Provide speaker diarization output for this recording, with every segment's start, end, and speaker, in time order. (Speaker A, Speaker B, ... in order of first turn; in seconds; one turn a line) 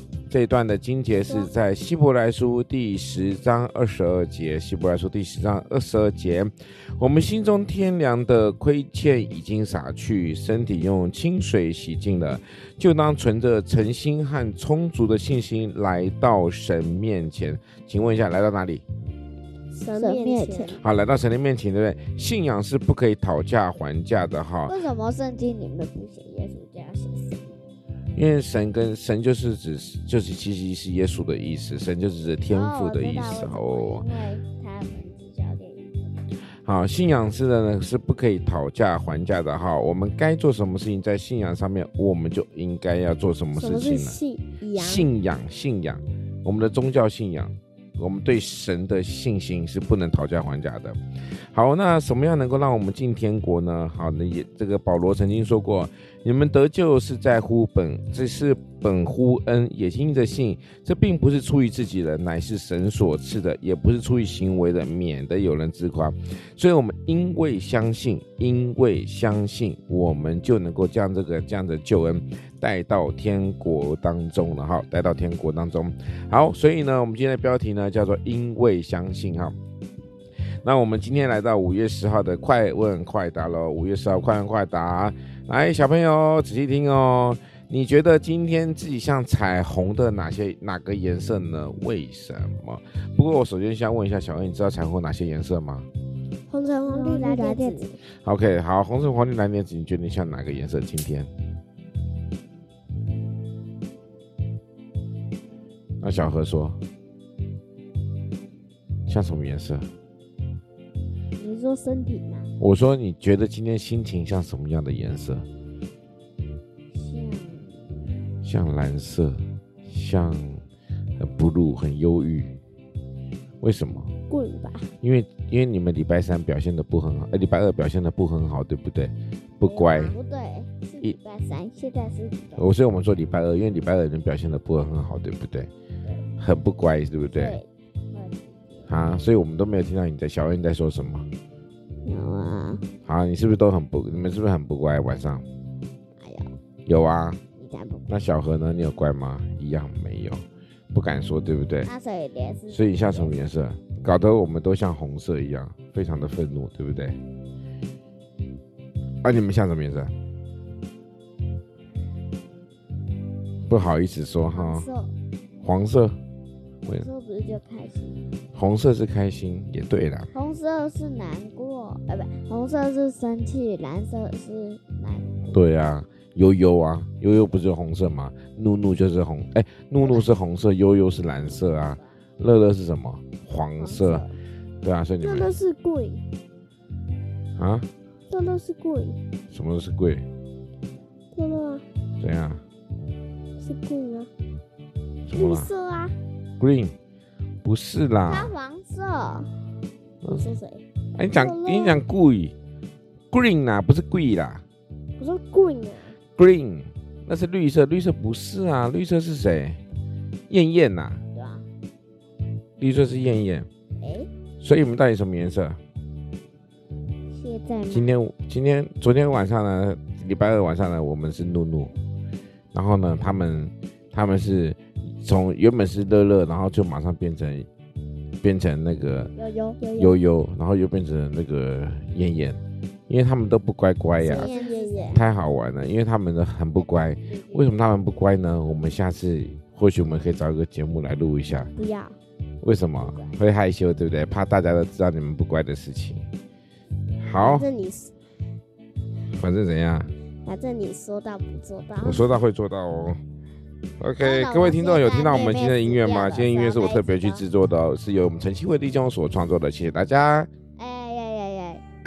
Speaker A: 0.3-18.8
Speaker B: 19.7-20.8
Speaker C: 19.9-20.8
Speaker A: 20.7-24.8
Speaker C: 24.6-27.5
Speaker A: 28.1-34.0
Speaker C: 32.5-36.3
Speaker A: 36.4-44.2
Speaker B: 43.5-45.1
Speaker A: 44.7-79.5
Speaker A: 80.6-95.9
Speaker B: 96.5-98.0
Speaker C: 96.8-98.0
Speaker A: 98.0-101.3
Speaker A: 106.0-106.8
Speaker A: 109.1-109.9
Speaker C: 111.3-112.5
Speaker A: 112.6-115.5
Speaker C: 116.9-118.2
Speaker A: 118.4-120.6
Speaker A: 121.2-122.6
Speaker A: 123.6-124.1
Speaker B: 124.3-124.9
Speaker A: 125.0-130.2
Speaker C: 129.6-132.7
Speaker A: 132.6-135.7
Speaker A: 136.4-137.6
Speaker C: 137.3-138.9
Speaker A: 138.9-141.3
Speaker C: 142.0-142.9
Speaker A: 143.0-145.4
Speaker C: 146.2-146.6
Speaker A: 146.8-147.4
Speaker C: 147.6-148.1
Speaker A: 148.1-151.9
Speaker C: 151.8-153.3
Speaker A: 152.7-157.2
Speaker A: 159.2-160.1
Speaker A: 163.6-164.9
Speaker C: 164.5-165.1
Speaker A: 165.6-166.2
Speaker C: 166.8-168.3
Speaker A: 168.5-170.3
Speaker C: 170.3-175.6
Speaker A: 175.5-184.2
Speaker C: 183.8-184.3
Speaker A: 184.8-185.5
Speaker B: 185.2-186.2
Speaker A: 187.6-187.9
Speaker B: 188.3-189.2
Speaker A: 189.5-190.2
Speaker B: 191.3-191.8
Speaker A: 192.2-192.6
Speaker B: 193.6-194.3
Speaker A: 195.2-195.7
Speaker B: 195.3-196.2
Speaker A: 196.6-196.9
Speaker A: 197.6-198.5
Speaker C: 198.2-199.7
Speaker C: 200.4-200.8
Speaker A: 201.1-202.5
Speaker B: 201.3-202.0
Speaker A: 203.3-204.6
Speaker B: 205.2-206.2
Speaker A: 206.4-209.8
Speaker A: 210.5-211.2
Speaker C: 211.3-211.7
Speaker A: 212.8-213.7
Speaker C: 214.0-214.3
Speaker A: 214.6-215.8
Speaker C: 217.3-218.1
Speaker A: 217.9-221.9
Speaker A: 222.7-227.7
Speaker A: 228.4-229.3
Speaker C: 229.3-229.9
Speaker B: 229.8-230.2
Speaker A: 229.9-234.5
Speaker C: 234.2-235.2
Speaker B: 234.2-235.2
Speaker A: 235.1-241.7
Speaker C: 236.8-237.8
Speaker B: 241.8-242.2
Speaker A: 242.6-246.3
Speaker C: 243.1-243.4
Speaker A: 247.2-247.7
Speaker B: 247.4-248.1
Speaker A: 249.3-250.1
Speaker B: 250.4-252.1
Speaker A: 252.0-253.2
Speaker A: 254.0-260.5
Speaker C: 254.2-257.4
Speaker C: 260.8-261.8